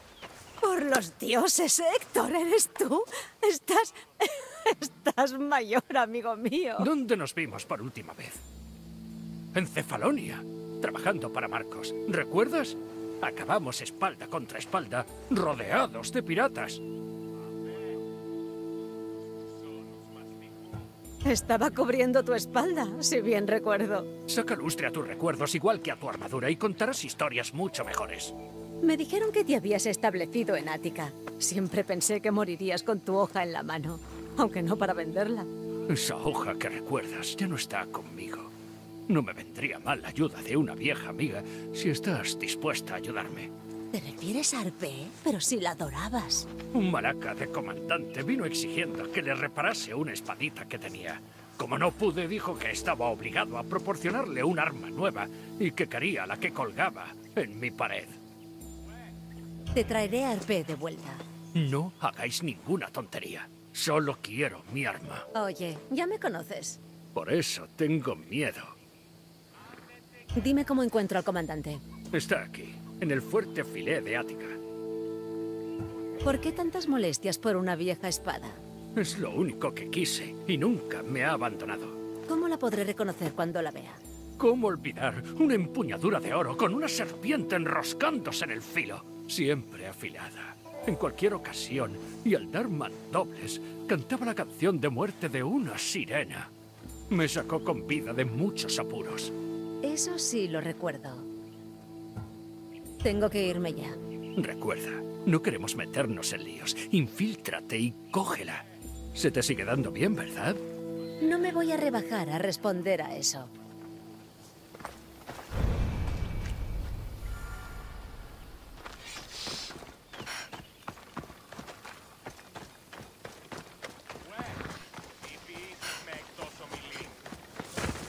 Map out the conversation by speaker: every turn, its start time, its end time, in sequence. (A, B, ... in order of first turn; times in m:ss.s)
0:00.6-0:06.9 A
0:06.8-0:08.4 B
0:09.5-0:16.8 B
0:21.2-0:24.1 A
0:24.3-0:28.3 B
0:28.8-0:35.5 A
0:35.9-0:38.5 B
0:39.1-0:43.5 B
0:43.9-0:46.5 A
0:46.7-0:58.2 B
0:59.7-1:01.2 A
1:01.5-1:05.3 B
1:05.3-1:06.8 A
1:07.1-1:08.7 B
1:10.4-1:11.8 A
1:12.1-1:14.6 B
1:16.2-1:18.6 A
1:19.0-1:22.0 B
1:22.3-1:24.0 A
1:24.4-1:36.5 B
1:37.1-1:39.3 B
1:39.8-1:41.3 A
1:43.0-1:44.0 A
1:44.3-1:50.6 B
1:51.2-1:53.5 A